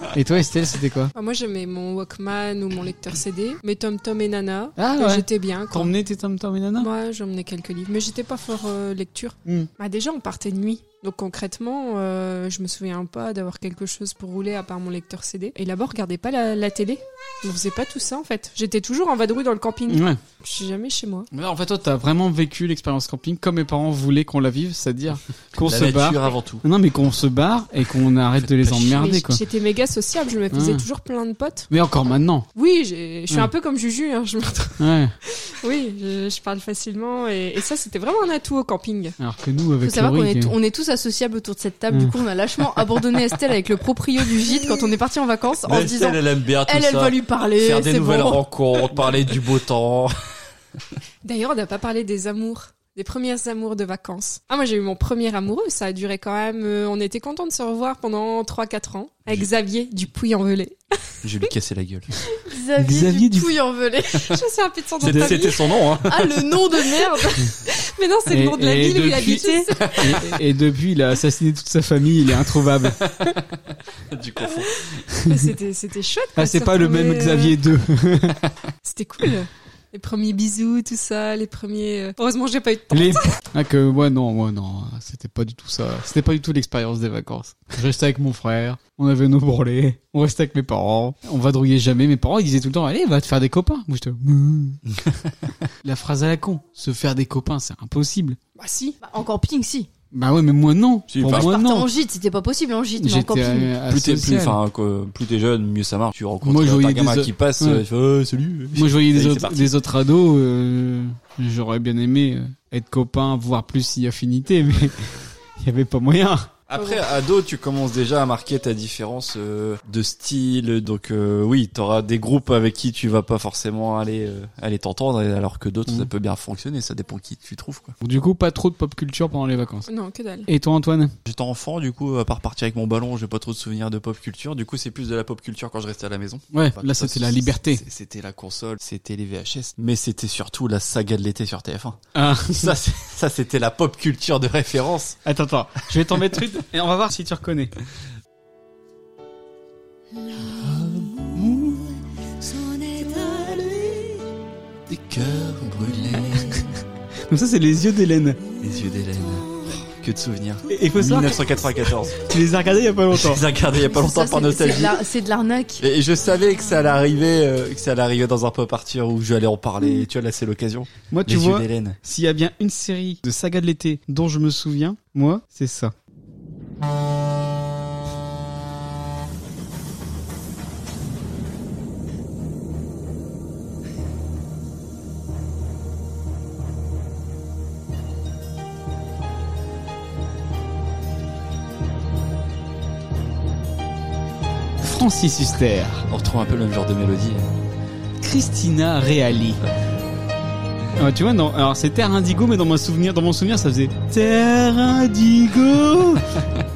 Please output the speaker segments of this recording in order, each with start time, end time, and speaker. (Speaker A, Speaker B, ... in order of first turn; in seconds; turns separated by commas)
Speaker A: 0.1-1.1, Speaker B: 1.1-5.9, Speaker A: 4.8-6.9, Speaker B: 6.8-21.3, Speaker A: 19.9-20.2, Speaker A: 21.3-29.4, Speaker C: 25.5-26.6, Speaker C: 28.4-29.1, Speaker B: 29.0-31.7, Speaker A: 30.5-30.8, Speaker A: 31.7-32.5, Speaker B: 32.5-39.2, Speaker A: 34.8-35.1, Speaker A: 39.2-40.5, Speaker D: 39.8-48.4, Speaker C: 45.6-50.1, Speaker B: 51.2-60.9, Speaker C: 61.2-62.1, Speaker D: 62.4-64.3, Speaker A: 62.8-63.5, Speaker B: 64.2-66.0, Speaker C: 65.0-66.5, Speaker D: 66.0-67.5, Speaker B: 66.8-70.0, Speaker A: 68.3-73.0, Speaker C: 73.2-75.0, Speaker B: 75.2-77.5, Speaker A: 76.4-78.4, Speaker B: 78.8-83.3, Speaker A: 82.9-94.8, Speaker C: 94.9-95.3, Speaker A: 95.8-98.4, Speaker B: 98.6-99.0, Speaker D: 99.0-99.9, Speaker A: 100.1-101.9, Speaker C: 101.1-101.6, Speaker D: 101.3-103.7, Speaker A: 103.0-104.6, Speaker C: 103.9-109.7, Speaker A: 106.4-107.8, Speaker A: 108.7-115.1, Speaker A: 115.6-116.5, Speaker C: 116.7-128.0, Speaker A: 128.0-129.9, Speaker B: 129.9-130.5, Speaker A: 130.5-131.1, Speaker C: 131.2-145.2, Speaker A: 136.5-137.8, Speaker A: 142.1-142.8, Speaker A: 145.2-147.7, Speaker C: 150.5-152.0, Speaker C: 152.9-154.0, Speaker C: 154.9-156.8, Speaker A: 157.3-158.4, Speaker C: 158.6-162.2, Speaker A: 160.7-161.4, Speaker A: 162.2-163.4, Speaker C: 163.1-165.0, Speaker D: 163.7-165.8, Speaker C: 165.8-172.0, Speaker A: 171.1-175.9, Speaker A: 194.8-196.1, Speaker C: 196.1-197.5, Speaker A: 198.2-199.6, Speaker A: 201.0-206.2